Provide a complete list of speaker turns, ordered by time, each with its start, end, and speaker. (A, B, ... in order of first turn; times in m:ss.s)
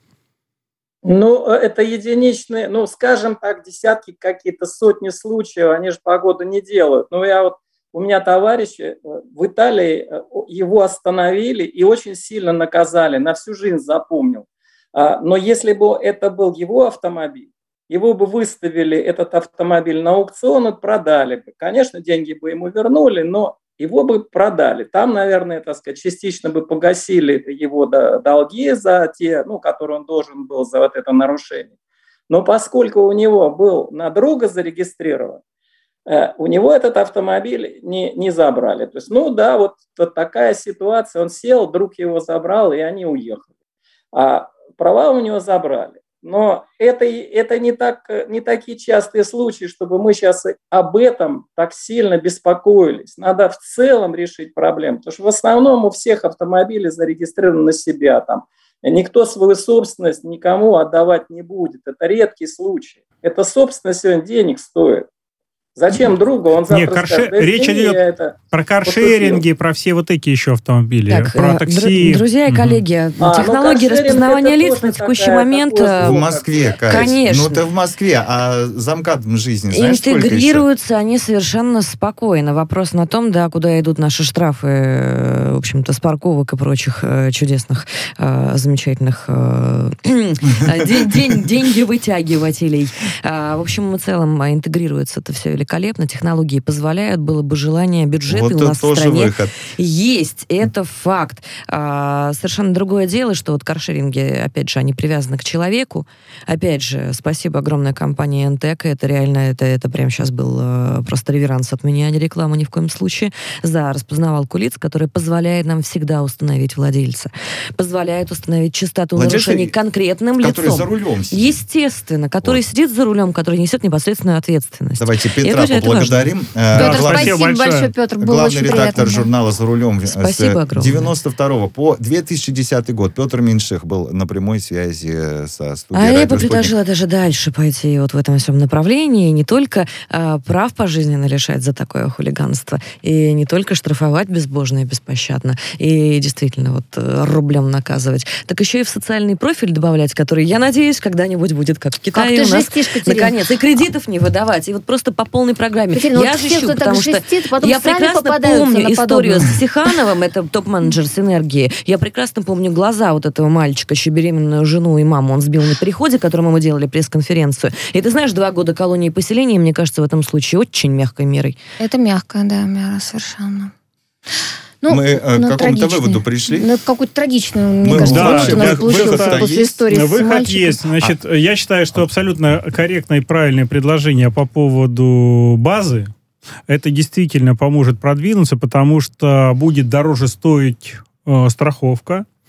0:01.0-0:31.7 A
0:32.3-0:35.4 A
0:36.1-0:43.5 A
0:44.1-1:05.1 A
1:05.8-1:09.4 A
1:06.7-1:12.8 B
1:11.1-1:16.2 C
1:13.2-1:16.5 A
1:16.0-1:20.6 D
1:16.8-1:17.6 C
1:19.7-2:06.3 C
1:38.3-1:39.6 D
1:59.1-1:59.7 D
2:00.4-2:01.6 D
2:05.0-2:07.4 D
2:06.7-2:09.2 E
2:06.7-2:07.9 B
2:08.2-2:16.7 D
2:10.1-2:11.1 C
2:15.9-2:51.6 C
2:32.1-2:33.3 E
2:35.9-2:39.6 E
2:51.8-2:53.7 E
2:54.8-3:00.8 E
2:54.9-2:56.7 D
2:57.8-2:59.8 D
2:57.9-3:06.1 B
3:06.7-3:12.2 B